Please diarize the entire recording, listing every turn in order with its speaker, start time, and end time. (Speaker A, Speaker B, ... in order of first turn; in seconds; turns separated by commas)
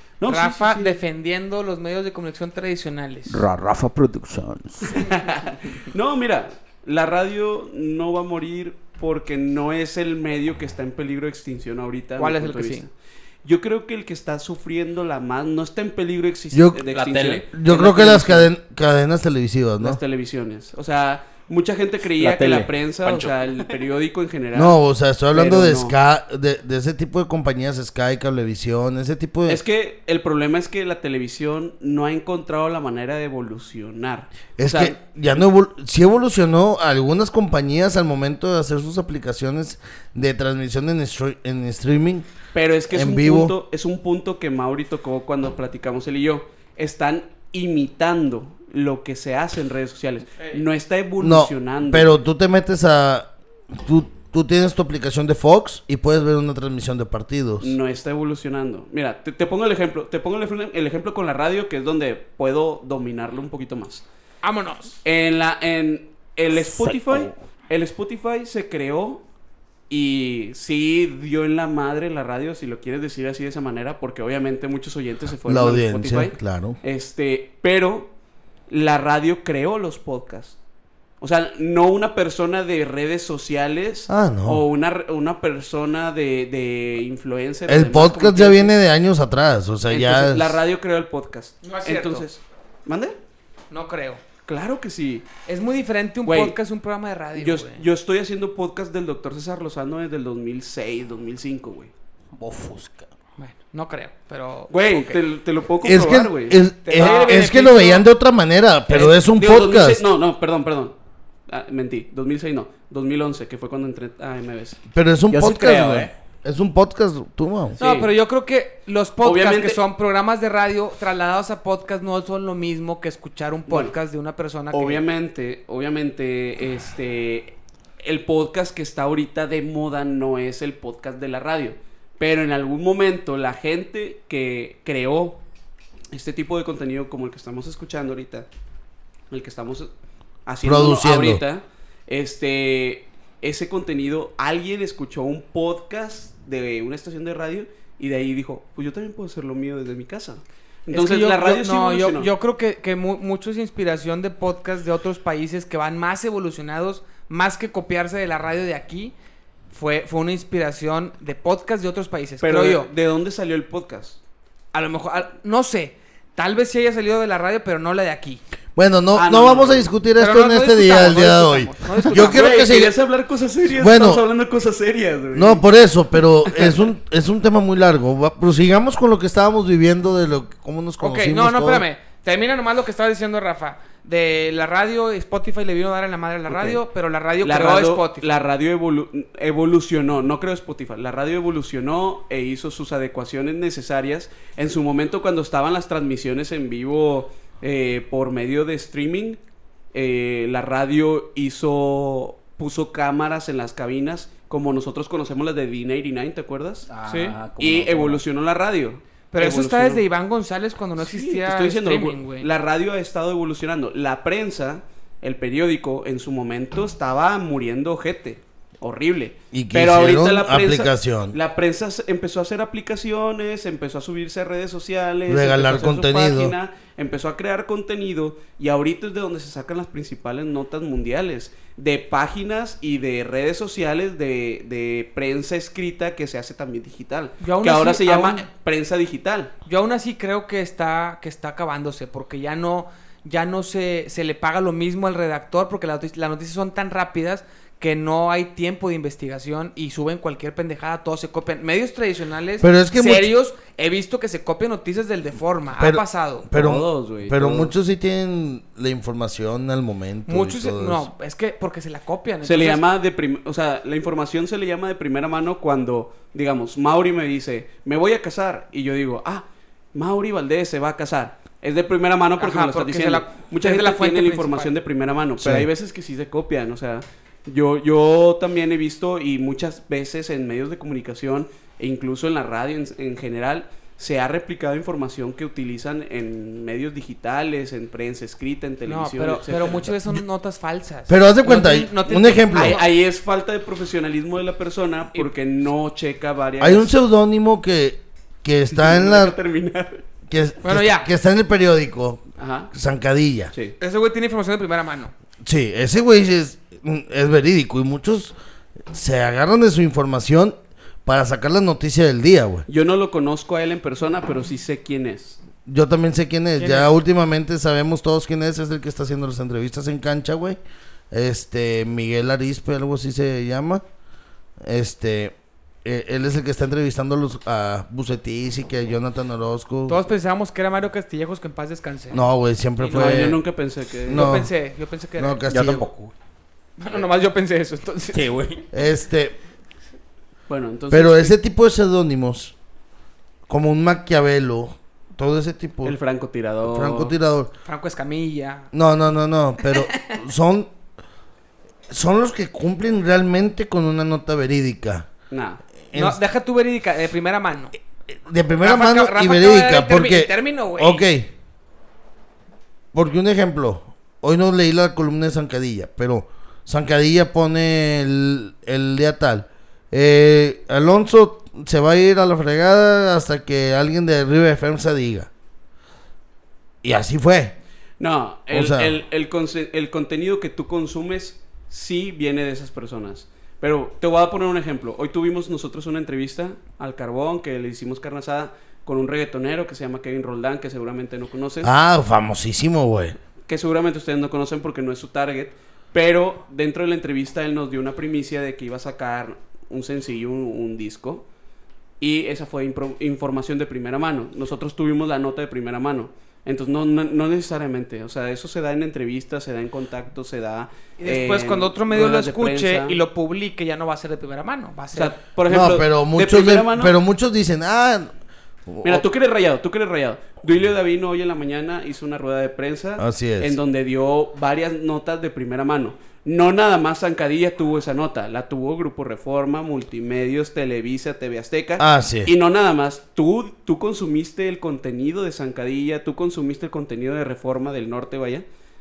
Speaker A: 0.2-0.9, Speaker B: 0.2-3.4, Speaker C: 3.3-5.0, Speaker A: 4.9-12.9, Speaker B: 12.2-12.9, Speaker A: 13.4-18.5, Speaker D: 16.5-16.8, Speaker C: 16.9-17.4, Speaker D: 17.5-20.0, Speaker A: 19.8-24.8, Speaker C: 22.2-23.8, Speaker D: 24.5-29.6, Speaker A: 25.3-25.9, Speaker A: 29.5-35.0, Speaker D: 34.6-42.3, Speaker A: 42.5-52.2, Speaker D: 42.9-43.5, Speaker D: 51.2-57.8, Speaker A: 57.6-64.0, Speaker B: 64.4-65.0, Speaker A: 65.0-69.2, Speaker C: 66.5-67.3, Speaker A: 69.9-78.1, Speaker D: 75.4-76.8, Speaker A: 78.7-80.6, Speaker A: 81.2-88.8, Speaker D: 84.1-84.6, Speaker D: 87.7-90.6, Speaker A: 89.9-93.2, Speaker B: 91.6-92.3, Speaker B: 93.7-94.2, Speaker A: 94.5-95.3, Speaker B: 95.5-97.8, Speaker A: 96.2-96.5, Speaker A: 97.4-101.9, Speaker C: 102.3-103.1, Speaker B: 103.4-105.2, Speaker A: 104.7-107.4, Speaker D: 105.8-110.0, Speaker B: 106.8-108.1, Speaker A: 108.9-110.9, Speaker A: 111.5-114.8, Speaker D: 114.9-117.8, Speaker C: 115.3-116.1, Speaker A: 117.8-118.1, Speaker B: 117.8-125.0, Speaker A: 119.2-119.8, Speaker A: 123.7-123.9, Speaker A: 124.7-135.4, Speaker A: 136.1-138.5, Speaker A: 139.3-139.9, Speaker A: 140.4-152.3, Speaker D: 140.6-141.4, Speaker B: 150.9-159.1, Speaker B: 159.7-162.9, Speaker A: 162.4-164.2, Speaker B: 164.7-168.4, Speaker D: 168.8-172.9, Speaker A: 169.1-169.9, Speaker B: 170.2-172.6, Speaker A: 172.0-175.6, Speaker D: 173.7-174.2, Speaker D: 175.3-181.8, Speaker A: 176.5-176.8, Speaker B: 181.0-188.2, Speaker A: 186.5-186.8, Speaker A: 187.4-199.4, Speaker A: 199.9-210.0, Speaker C: 206.9-208.2, Speaker B: 209.3-212.5, Speaker A: 211.0-239.5, Speaker D: 219.5-221.3, Speaker D: 225.3-226.5, Speaker B: 237.4-238.5, Speaker B: 239.7-256.5, Speaker D: 252.6-253.3, Speaker D: 255.8-261.1, Speaker A: 256.5-257.7, Speaker B: 260.3-262.8, Speaker A: 262.4-289.9, Speaker B: 272.4-274.7, Speaker D: 275.4-275.7, Speaker B: 288.9-292.9, Speaker D: 291.1-292.8, Speaker A: 292.5-296.9, Speaker D: 296.6-299.3, Speaker A: 298.7-300.0, Speaker D: 300.3-303.5, Speaker B: 300.6-301.1, Speaker A: 302.4-302.7, Speaker B: 303.8-305.1, Speaker D: 305.4-308.3, Speaker D: 308.9-312.6, Speaker A: 312.7-315.4, Speaker D: 315.6-320.6, Speaker D: 321.1-323.8, Speaker D: 324.6-330.0, Speaker B: 329.9-332.2, Speaker D: 332.1-333.4, Speaker B: 332.8-333.4, Speaker A: 332.9-334.4, Speaker D: 334.0-334.5, Speaker B: 334.1-335.4, Speaker D: 335.2-335.9, Speaker C: 335.5-336.1, Speaker B: 336.8-338.2, Speaker C: 338.1-338.6, Speaker D: 338.7-339.4, Speaker A: 340.5-341.3, Speaker D: 340.9-342.5, Speaker D: 343.5-346.0, Speaker A: 345.8-347.1, Speaker D: 346.6-347.5, Speaker B: 347.6-348.7, Speaker D: 348.7-350.7, Speaker D: 351.9-355.1, Speaker A: 355.3-355.6, Speaker D: 355.9-356.2, Speaker B: 355.9-357.7, Speaker D: 358.1-361.3, Speaker B: 358.6-361.0, Speaker D: 362.9-375.3, Speaker D: 376.8-377.6, Speaker A: 378.0-391.7, Speaker D: 378.5-379.0, Speaker D: 391.6-393.1, Speaker A: 393.4-401.2, Speaker A: 402.0-413.0, Speaker B: 411.0-415.1, Speaker A: 414.9-416.9, Speaker D: 415.5-418.1, Speaker D: 418.7-419.0, Speaker A: 418.8-438.4, Speaker D: 423.0-423.6, Speaker D: 431.8-432.3